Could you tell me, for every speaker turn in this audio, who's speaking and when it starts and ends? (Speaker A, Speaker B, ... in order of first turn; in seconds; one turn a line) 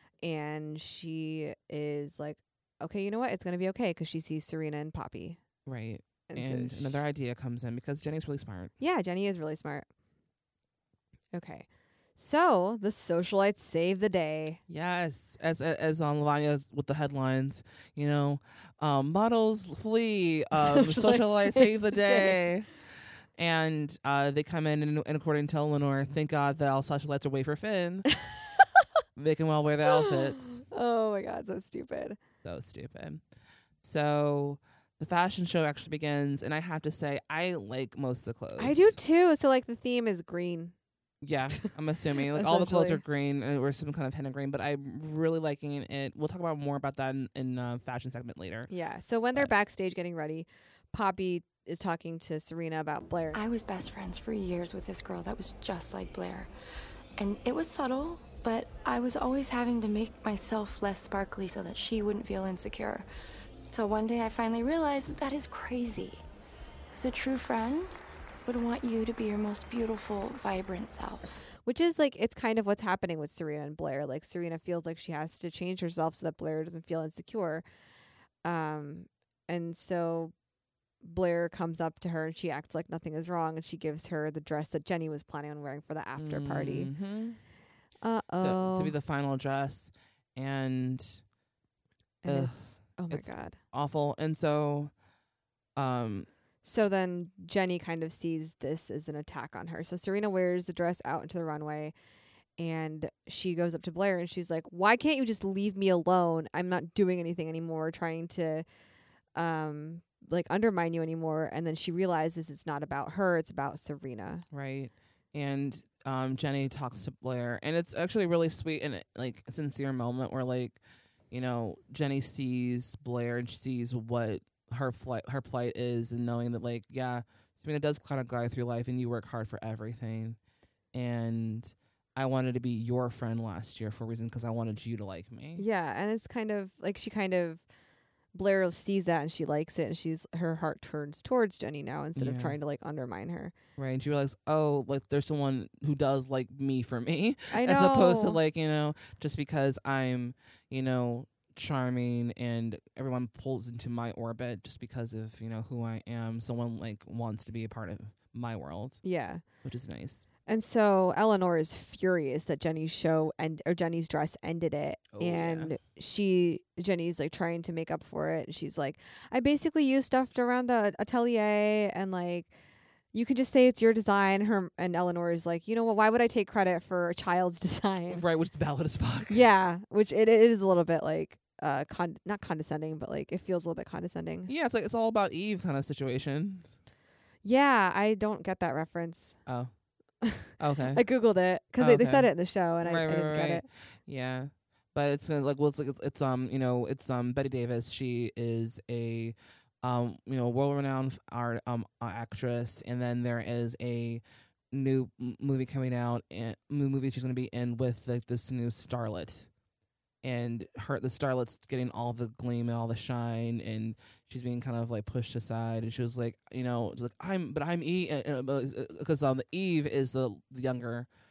Speaker A: 0.2-5.4
Speaker B: 5.7-8.7
Speaker A: 6.3-7.0
Speaker A: 8.8-9.8
Speaker A: 11.3-14.6
Speaker B: 14.7-22.7
Speaker A: 20.5-22.4
Speaker B: 23.4-28.1
Speaker B: 29.1-30.6
Speaker A: 29.9-32.2
Speaker B: 32.4-33.2
Speaker B: 33.8-39.0
Speaker A: 38.6-40.7
Speaker B: 41.2-48.7
Speaker A: 42.2-43.0
Speaker A: 48.7-53.4
Speaker C: 53.3-56.5
Speaker C: 57.2-63.1
Speaker C: 63.7-66.2
Speaker C: 66.9-71.4
Speaker A: 71.6-77.6
Speaker A: 78.4-80.3
Speaker A: 81.0-86.9
Speaker B: 86.2-87.4
Speaker A: 88.0-89.0
Speaker B: 88.4-91.2
Speaker A: 92.2-93.6
Speaker B: 92.2-94.9
Speaker B: 95.8-96.3
Speaker A: 96.6-101.9
Speaker A: 102.6-108.6
Speaker A: 109.3-114.4
Speaker B: 114.5-120.8
Speaker B: 121.3-130.4
Speaker B: 130.9-135.6
Speaker A: 135.6-137.6
Speaker A: 138.3-143.5
Speaker B: 142.2-142.6
Speaker B: 143.8-159.0
Speaker A: 147.5-148.4
Speaker A: 159.0-159.4
Speaker B: 159.6-160.2
Speaker A: 160.4-172.5
Speaker B: 165.1-165.7
Speaker A: 173.1-178.2
Speaker B: 178.1-179.4
Speaker A: 179.3-184.5
Speaker B: 184.5-186.7
Speaker A: 187.4-189.4
Speaker B: 189.4-189.7
Speaker A: 190.2-193.7
Speaker B: 190.6-191.0
Speaker B: 191.8-209.5
Speaker B: 210.2-221.1